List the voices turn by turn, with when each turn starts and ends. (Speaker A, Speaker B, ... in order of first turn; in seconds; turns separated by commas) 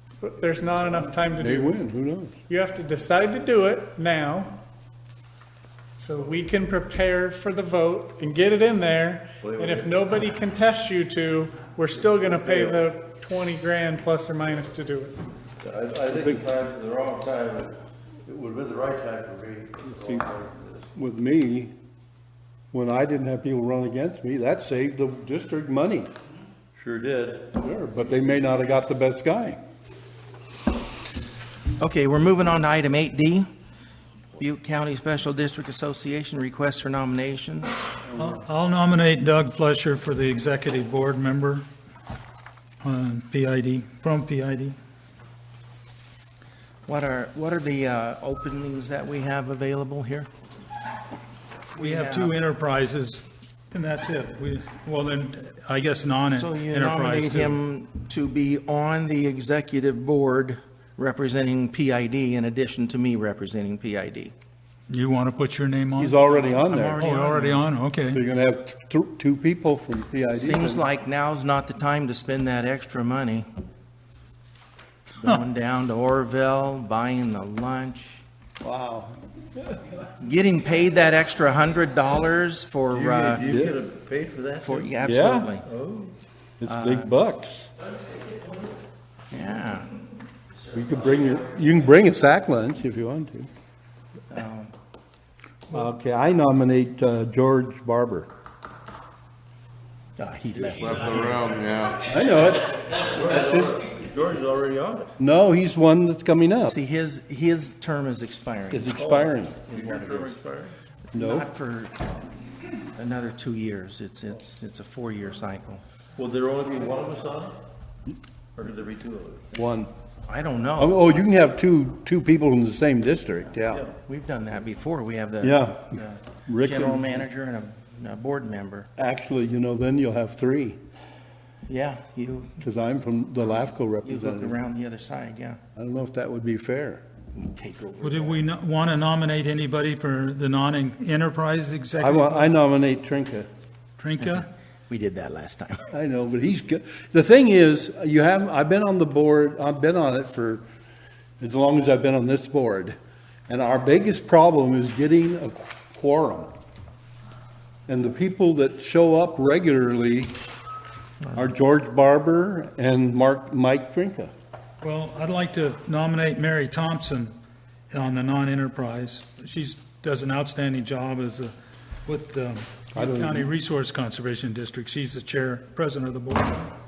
Speaker A: 0.2-1.8, Speaker B: 1.4-2.3, Speaker A: 2.5-4.6, Speaker A: 6.0-15.2, Speaker C: 9.4-10.0, Speaker C: 12.1-12.8, Speaker C: 15.6-20.9, Speaker B: 16.1-16.4, Speaker B: 20.0-20.3, Speaker B: 20.9-21.7, Speaker B: 22.7-26.1, Speaker C: 26.7-27.5, Speaker B: 27.6-29.6, Speaker D: 31.8-33.5, Speaker D: 34.4-37.8, Speaker B: 38.1-38.4, Speaker E: 38.1-41.6, Speaker E: 42.8-44.8, Speaker D: 46.9-50.3, Speaker D: 51.7-52.3, Speaker E: 51.8-57.6, Speaker D: 56.3-64.3, Speaker E: 64.9-68.2, Speaker B: 66.0-67.4, Speaker D: 67.0-67.5, Speaker B: 68.1-70.9, Speaker D: 70.3-73.4, Speaker D: 75.2-78.2, Speaker B: 78.6-79.2, Speaker D: 80.2-83.5, Speaker C: 82.9-86.1, Speaker B: 83.5-83.8, Speaker D: 84.6-85.7, Speaker B: 85.0-85.5, Speaker B: 86.6-87.7, Speaker D: 86.7-87.1, Speaker D: 89.3-89.9, Speaker B: 90.7-93.5, Speaker D: 94.3-94.7, Speaker B: 95.7-98.3, Speaker D: 100.2-101.5, Speaker C: 100.5-102.1, Speaker B: 102.0-103.9, Speaker C: 103.0-105.1, Speaker B: 105.2-106.7, Speaker D: 106.6-110.4, Speaker B: 108.7-109.7, Speaker C: 109.6-110.7, Speaker D: 111.0-112.1, Speaker B: 111.1-111.5, Speaker D: 113.0-115.8, Speaker C: 116.2-117.6, Speaker C: 118.5-119.5, Speaker B: 119.5-119.9, Speaker D: 120.2-121.0, Speaker B: 120.8-123.8, Speaker C: 123.7-124.0, Speaker D: 124.0-128.9, Speaker B: 125.4-127.2, Speaker B: 129.0-130.8, Speaker D: 131.7-132.6, Speaker B: 132.6-134.6, Speaker D: 134.0-135.6, Speaker B: 135.8-137.0, Speaker D: 137.3-138.4, Speaker E: 138.0-142.5, Speaker B: 142.0-143.5, Speaker E: 144.0-144.5, Speaker D: 144.2-145.8, Speaker B: 145.9-150.6, Speaker B: 151.4-152.9, Speaker B: 153.5-156.5, Speaker B: 157.9-160.3, Speaker D: 161.2-161.5, Speaker B: 161.3-164.3, Speaker E: 164.8-167.3, Speaker E: 167.9-171.5, Speaker E: 172.1-176.7, Speaker B: 172.9-173.5